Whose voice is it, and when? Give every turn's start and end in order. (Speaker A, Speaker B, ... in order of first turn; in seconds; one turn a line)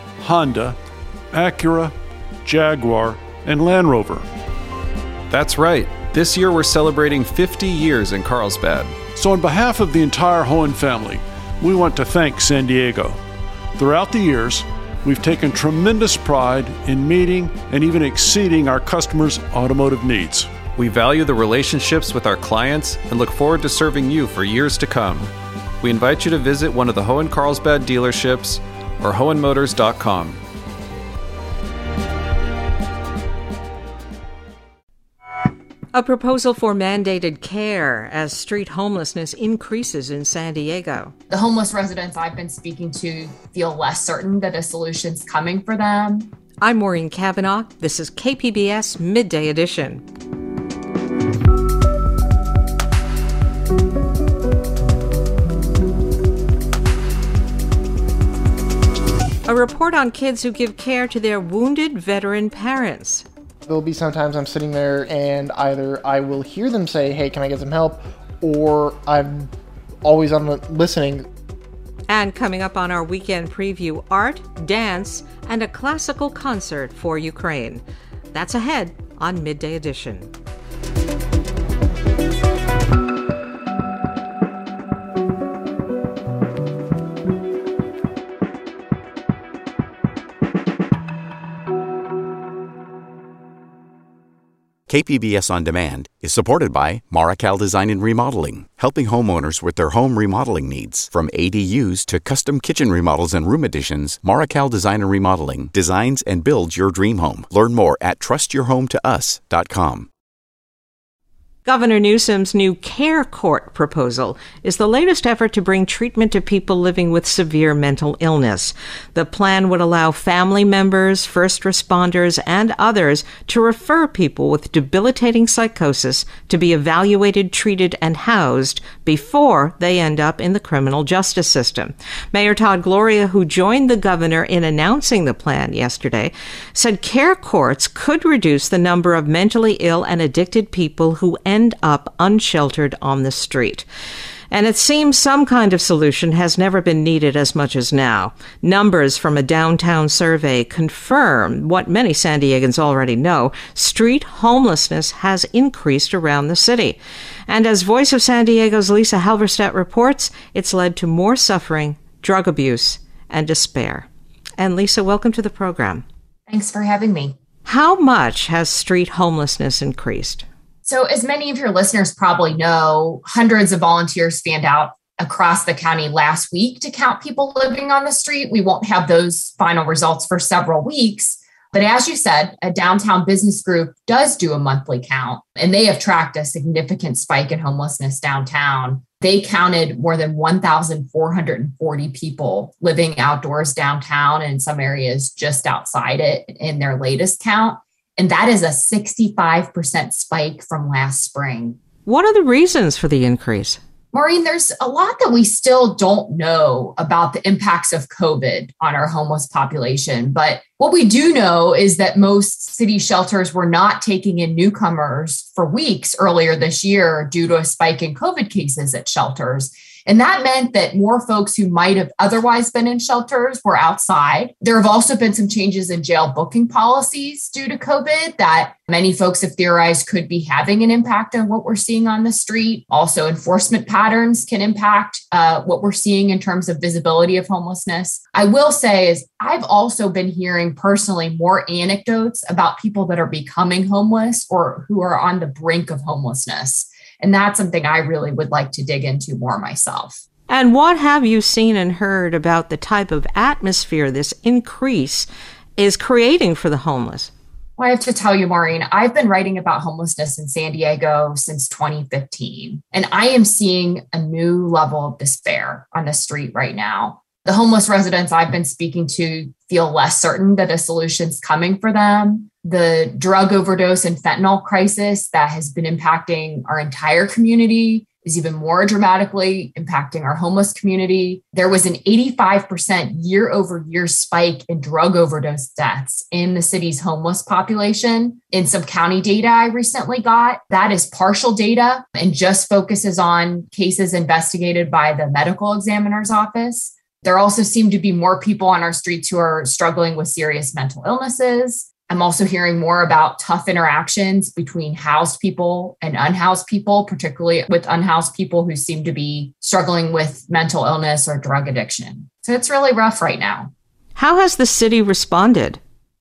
Speaker A: 0.2-0.8
Speaker A: 1.3-1.9
Speaker A: 2.4-4.2
Speaker B: 5.3-9.0
Speaker A: 9.1-13.2
Speaker A: 13.8-20.5
Speaker B: 20.7-30.4
Speaker C: 35.9-41.1
Speaker D: 41.3-46.3
Speaker C: 46.6-50.0
Speaker C: 59.5-63.2
Speaker E: 63.6-69.5
Speaker E: 70.0-71.3
Speaker C: 72.1-80.3
Speaker F: 94.9-110.1
Speaker C: 111.6-143.9
Speaker C: 144.5-164.1
Speaker C: 164.6-166.0
Speaker D: 166.5-167.3
Speaker C: 167.6-170.4
Speaker D: 170.8-201.8
Speaker C: 202.1-203.8
Speaker D: 204.1-250.2
Speaker C: 250.5-257.3
Speaker D: 257.8-313.7
Speaker C: 314.1-315.8